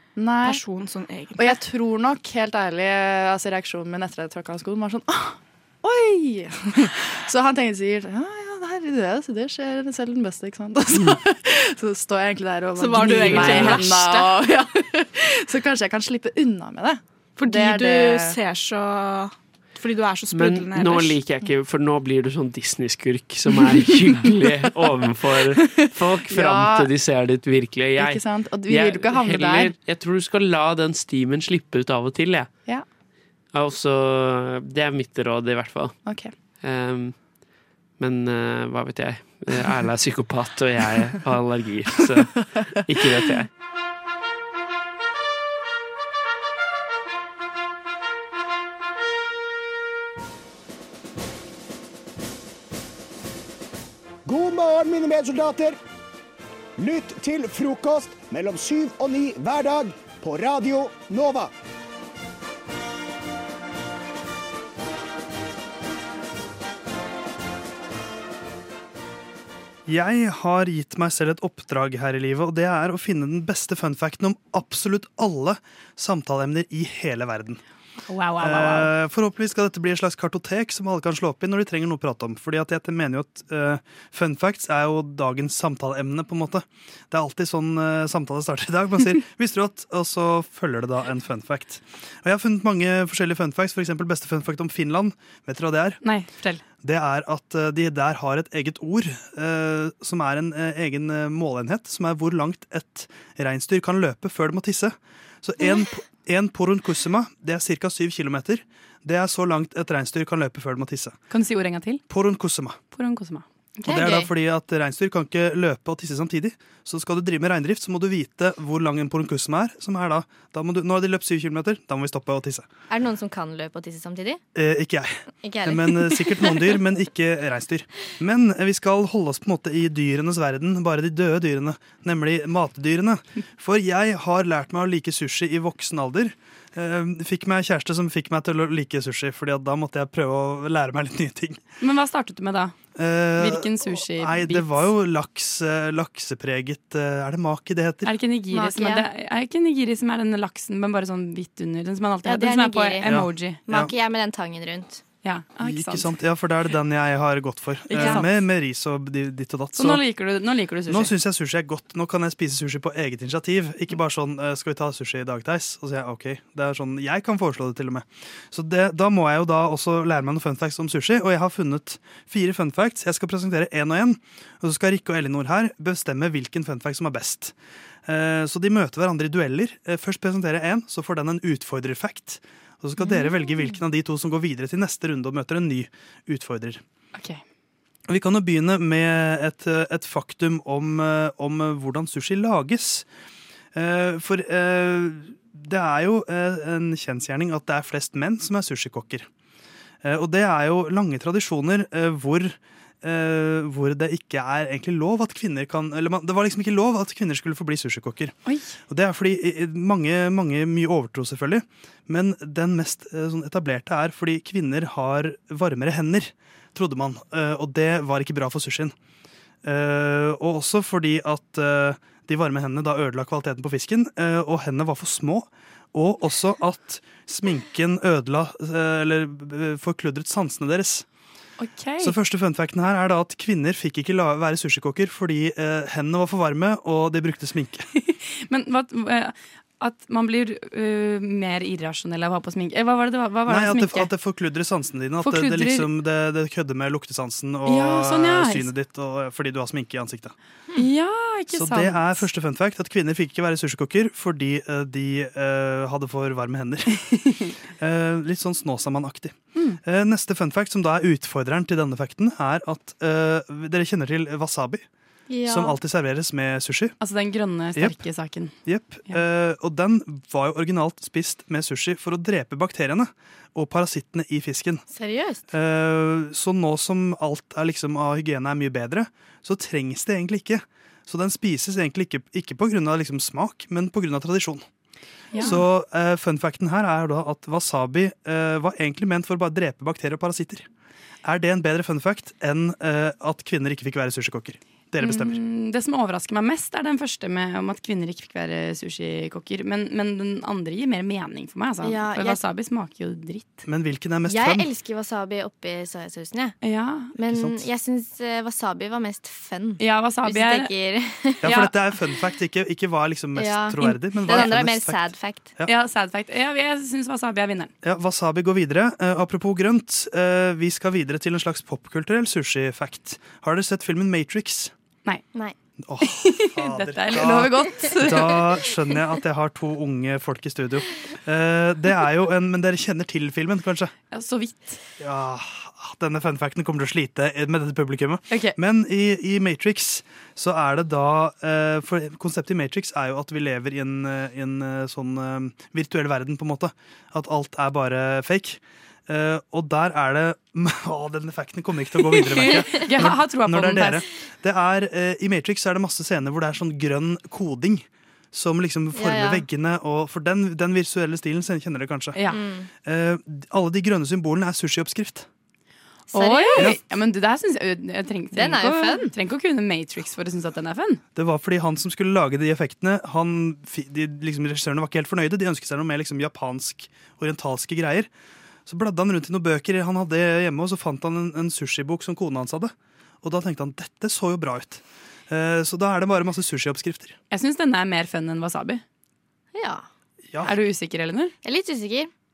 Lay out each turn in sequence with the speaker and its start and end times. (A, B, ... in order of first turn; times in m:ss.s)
0:00.2-0:00.6 A
0:00.4-0:01.6 B
0:01.4-0:18.4 A
0:12.8-0:14.4 B
0:13.2-0:13.6 C
0:17.4-0:21.2 B
0:20.3-0:32.5 C
0:26.3-0:26.9 A
0:28.0-0:29.7 A
0:33.5-0:36.0 C
0:36.1-0:36.3 A
0:36.6-0:37.2 C
0:38.0-0:43.5 C
0:54.2-0:55.8 D
0:56.8-1:01.5 D
1:09.9-1:17.6 E
1:18.1-1:18.9 F
1:18.4-1:36.0 E
1:36.0-1:36.6 F
1:36.8-1:51.2 E
1:51.3-1:52.0 F
1:52.1-1:52.8 E
1:52.9-1:53.4 F
1:53.8-1:54.3 G
1:53.9-2:02.7 E
2:02.9-2:04.4 G
2:04.6-2:21.6 E
2:05.4-2:06.7 G
2:21.8-2:22.7 F
2:23.0-2:28.2 E
2:23.4-2:24.9 F
2:28.0-2:33.6 F
2:28.5-2:29.1 G
2:32.2-2:35.0 G
2:33.0-2:33.9 E
2:35.2-2:36.2 F
2:35.6-2:40.0 E
2:37.9-2:38.4 F
2:39.8-2:41.1 F
2:40.9-2:57.6 E
2:58.1-3:06.8 E
3:03.0-3:03.8 F
3:07.2-3:07.4 F
3:08.1-3:13.1 E
3:13.7-3:19.3 E
3:20.0-3:28.4 E
3:28.5-3:28.7 F
3:28.9-3:38.9 E
3:39.6-3:51.0 E
3:51.6-3:52.2 F
3:52.0-3:57.9 E
3:58.0-4:04.1 F
4:03.5-4:10.4 E
4:05.2-4:06.0 F
4:07.7-4:08.7 F
4:10.8-4:12.3 F
4:11.5-4:17.0 E
4:17.8-4:24.8 E
4:19.6-4:19.8 F
4:25.3-4:25.8 G
4:25.5-4:27.0 E
4:27.0-4:28.5 F
4:28.6-4:34.8 E
4:34.9-4:35.4 G
4:35.5-4:44.6 E
4:45.3-4:45.7 F
4:45.4-4:50.7 E
4:51.2-4:55.4 E
4:55.0-5:03.7 F
5:01.8-5:02.4 G
5:03.7-5:04.7 E
5:04.3-5:06.6 G
5:06.6-5:07.1 F
5:07.2-5:11.6 G
5:07.3-5:07.6 E
5:09.8-5:10.7 F
5:11.4-5:15.7 E
5:11.4-5:11.7 F
5:13.4-5:15.5 G
5:15.6-5:17.7 F
5:17.8-5:24.7 E
5:25.8-5:33.9 E
5:26.0-5:28.8 F
5:34.1-5:34.8 F
5:35.0-6:02.2 E
5:38.3-5:38.6 F
5:52.2-5:54.0 F
5:58.9-5:59.5 G
6:02.2-6:02.4 F
6:02.2-6:02.7 G
6:02.8-6:05.3 E
6:06.1-6:06.7 G
6:06.1-6:11.0 F
6:08.3-6:09.1 G
6:11.2-6:18.1 E
6:18.7-6:27.2 E
6:27.3-6:28.8 F
6:29.5-6:29.8 G
6:30.4-6:31.3 F
6:31.4-6:32.1 G